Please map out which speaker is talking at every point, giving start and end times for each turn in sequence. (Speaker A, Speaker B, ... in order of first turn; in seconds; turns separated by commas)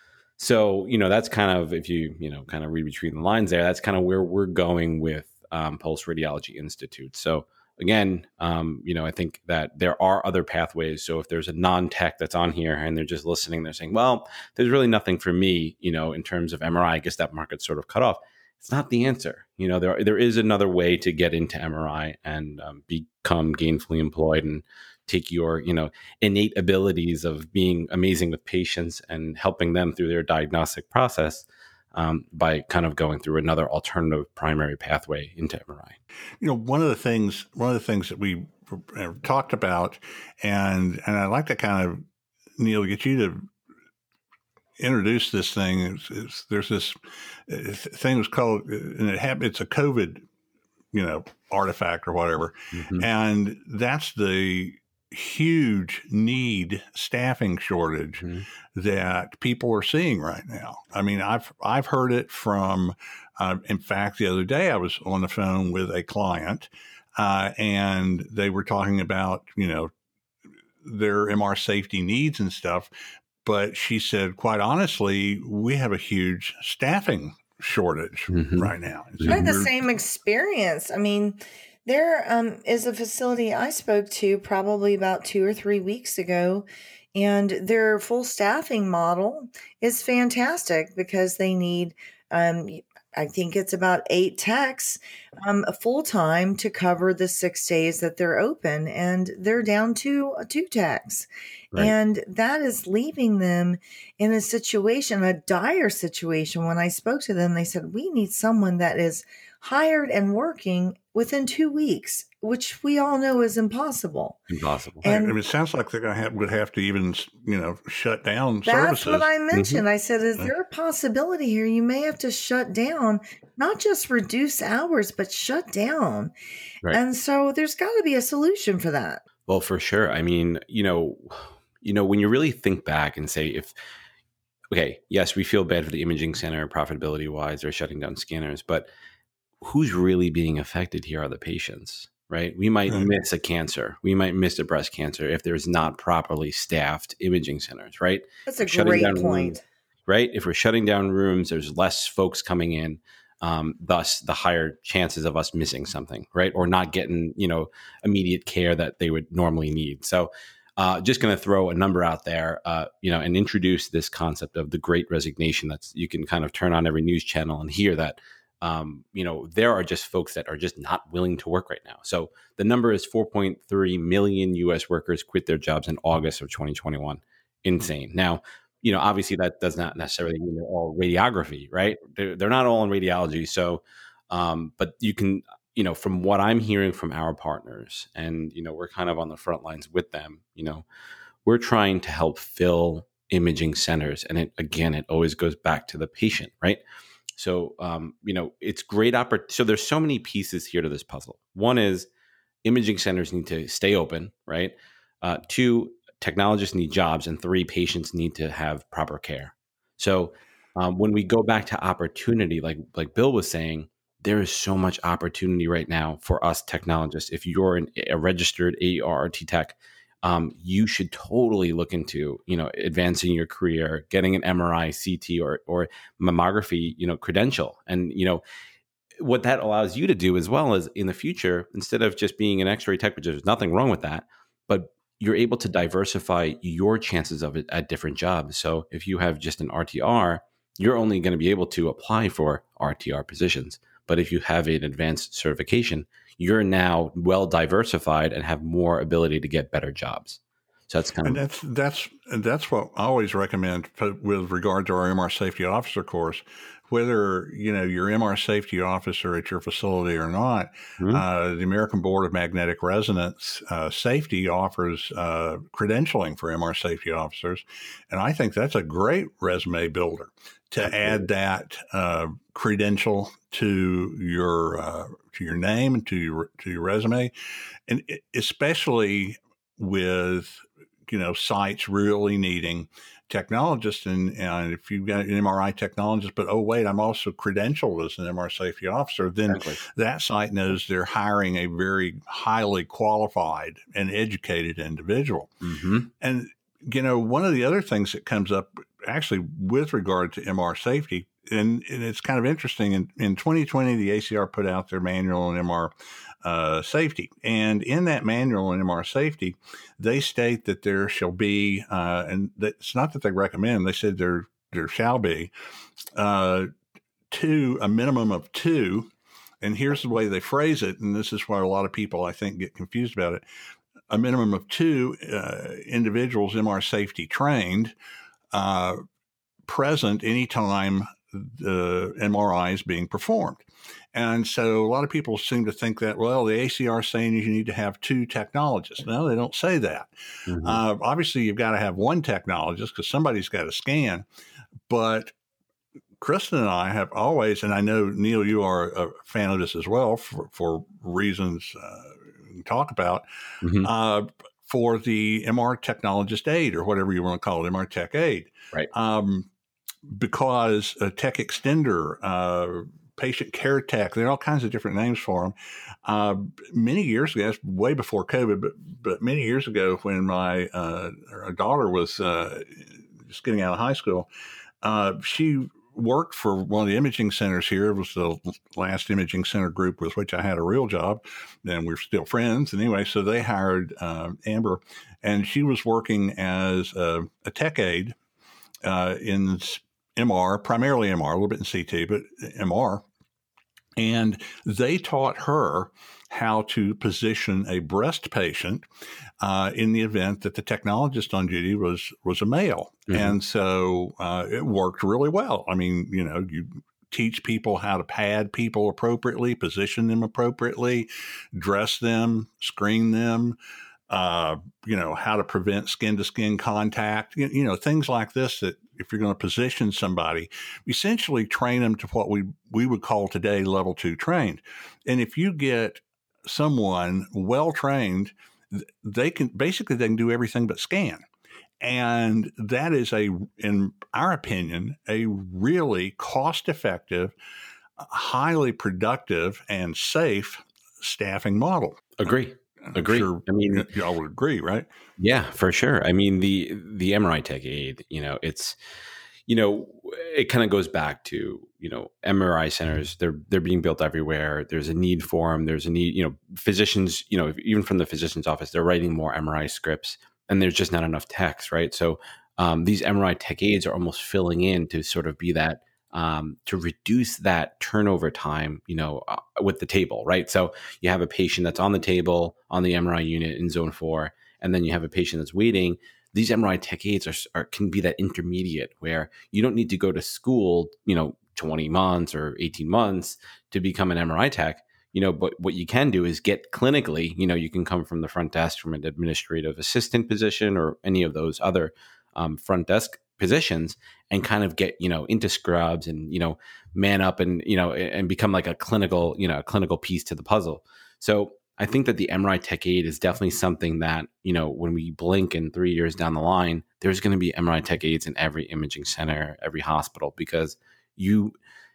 Speaker A: 0.4-36.0, Speaker B: 36.4-42.0, Speaker B: 42.6-43.5, Speaker B: 44.8-50.2, Speaker B: 50.9-69.9, Speaker A: 52.8-53.1, Speaker B: 70.8-72.9, Speaker B: 73.4-79.7, Speaker A: 78.3-78.7, Speaker C: 79.3-114.4, Speaker A: 114.5-115.0, Speaker C: 115.0-115.3, Speaker B: 115.0-119.3, Speaker C: 118.6-126.3, Speaker A: 119.5-119.8, Speaker C: 126.9-129.2, Speaker A: 129.5-133.7, Speaker A: 134.7-138.9, Speaker A: 139.6-190.8, Speaker C: 148.5-149.6, Speaker A: 191.4-196.8, Speaker A: 197.4-202.1, Speaker A: 202.6-228.4, Speaker A: 229.2-251.4, Speaker B: 251.2-277.3, Speaker B: 277.9-295.5, Speaker A: 289.5-289.8, Speaker A: 295.6-296.1, Speaker B: 296.2-315.5, Speaker B: 316.2-316.7, Speaker B: 317.3-323.4, Speaker B: 324.1-327.9, Speaker B: 328.5-329.0, Speaker B: 329.7-344.2, Speaker A: 340.5-340.8, Speaker B: 344.9-345.3, Speaker B: 346.2-353.2, Speaker A: 353.6-353.9, Speaker B: 353.8-359.5, Speaker B: 360.1-374.3, Speaker B: 374.8-388.2, Speaker B: 388.8-393.1, Speaker B: 394.0-398.9, Speaker B: 399.4-413.6, Speaker A: 403.1-403.4, Speaker B: 414.1-431.2, Speaker B: 431.8-437.3, Speaker B: 438.0-444.9, Speaker A: 442.2-443.9, Speaker A: 445.2-448.8, Speaker A: 449.5-511.5